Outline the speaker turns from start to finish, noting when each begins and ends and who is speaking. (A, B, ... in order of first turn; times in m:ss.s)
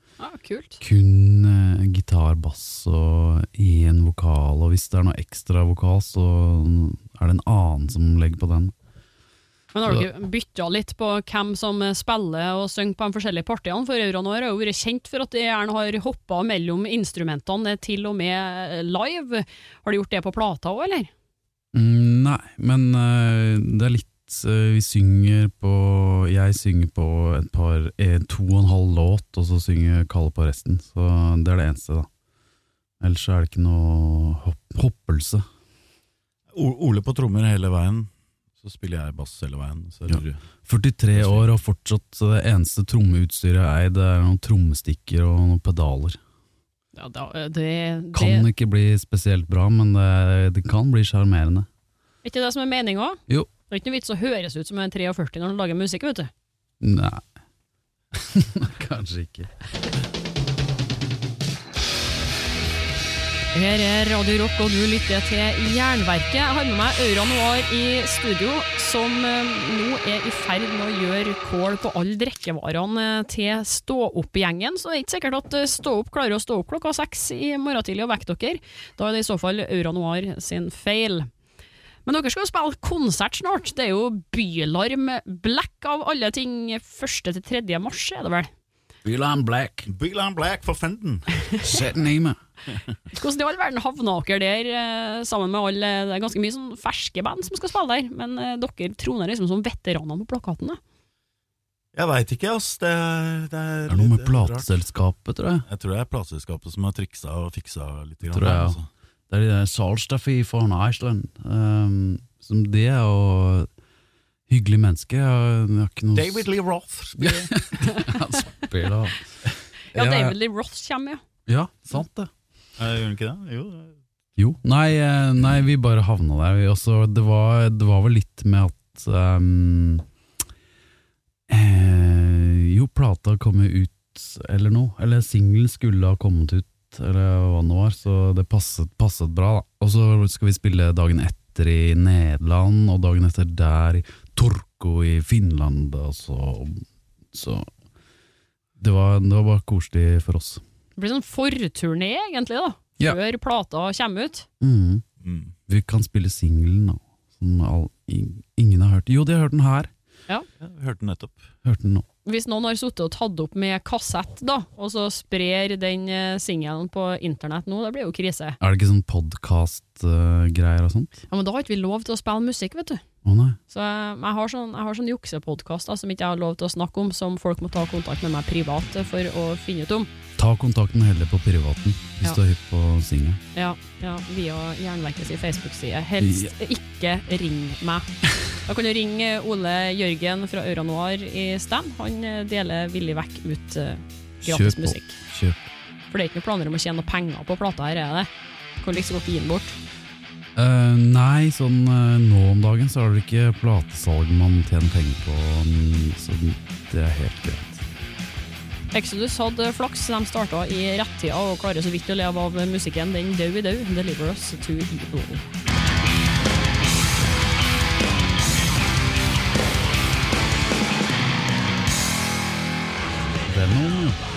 0:00.2-0:00.8 A
0:00.8-0:08.7 B
0:09.7-0:21.1 A
0:21.7-0:32.1 B
0:33.0-0:35.4 B
0:36.5-0:38.1 C
0:38.6-0:40.4 C
0:40.1-0:46.2 B
0:41.1-0:41.5 C
0:47.0-0:48.5 A
0:48.1-0:51.7 B
0:52.2-0:56.3 A
0:56.8-0:57.2 B
0:58.1-0:59.5 B
1:03.5-1:21.3 A
1:22.0-1:28.5 A
1:29.0-1:29.9 B
1:29.9-1:31.3 C
1:31.6-1:32.4 B
1:33.1-1:40.8 A
1:41.9-1:44.7 C
1:43.9-1:45.6 B
1:45.7-1:48.9 C
1:48.3-1:48.8 B
1:49.3-1:53.7 B
1:54.5-1:56.4 B
1:56.1-1:57.5 C
1:57.2-1:59.2 B
1:57.8-1:58.6 A
1:59.9-2:00.3 B
1:59.9-2:01.2 A
2:01.5-2:02.3 B
2:02.8-2:03.9 C
2:04.4-2:10.0 B
2:11.5-2:27.7 B
2:28.8-2:30.6 B
2:31.0-2:34.4 A
2:34.6-2:35.0 B
2:35.2-2:35.5 C
2:35.7-2:39.9 B
2:40.6-2:41.4 C
2:41.6-2:42.0 B
2:42.2-2:48.6 A
2:48.6-2:51.2 B
2:51.3-2:53.0 A
2:53.2-2:53.6 B
2:53.7-3:00.1 A
3:00.4-3:03.4 B
3:03.5-3:15.2 A
3:06.2-3:06.5 B
3:14.4-3:15.6 B
3:16.1-3:19.8 A
3:20.6-3:27.8 B
3:28.9-3:35.5 A
3:43.4-3:44.2 B